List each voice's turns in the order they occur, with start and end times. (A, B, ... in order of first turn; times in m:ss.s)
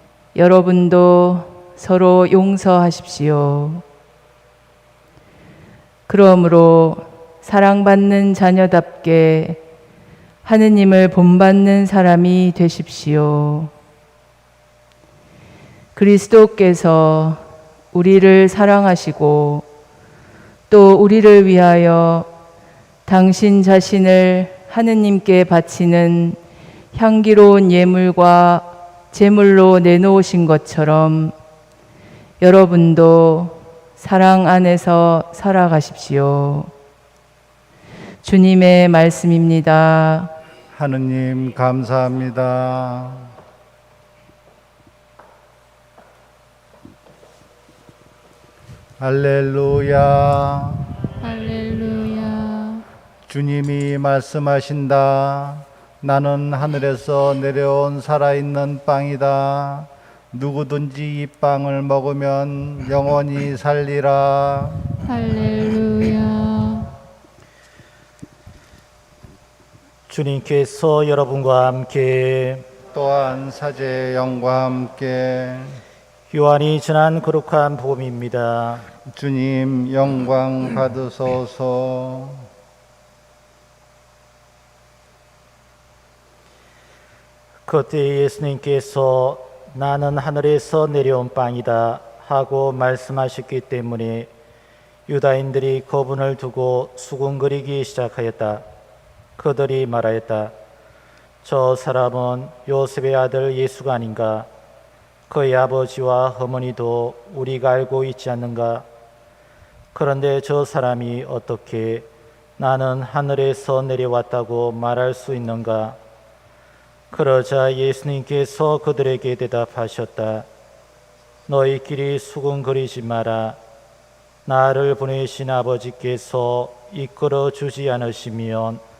0:00.4-0:03.8 A
0:06.1-0:09.6 A
0:10.4-0:13.7 A
0:16.0-0:19.7 A
0:20.7-0:22.3 A
0:23.1-0:26.4 A
0:26.9-0:31.4 A
0:32.4-0:36.7 A
0:38.2-0:40.3 A
0:40.7-0:43.3 B
0:49.0-0:50.9 B
0:51.2-0:52.8 C
0:53.3-1:04.9 B
1:05.0-1:06.9 C
1:10.1-1:12.6 D
1:12.9-1:15.8 B
1:16.3-1:18.8 D
1:19.1-1:22.5 B
1:27.7-1:34.3 D
1:35.1-1:38.6 D
1:39.4-1:40.5 D
1:41.4-1:44.5 D
1:45.3-1:48.9 D
1:50.0-1:56.0 D
1:57.1-2:00.5 D
2:01.5-2:03.6 D
2:04.5-2:08.8 D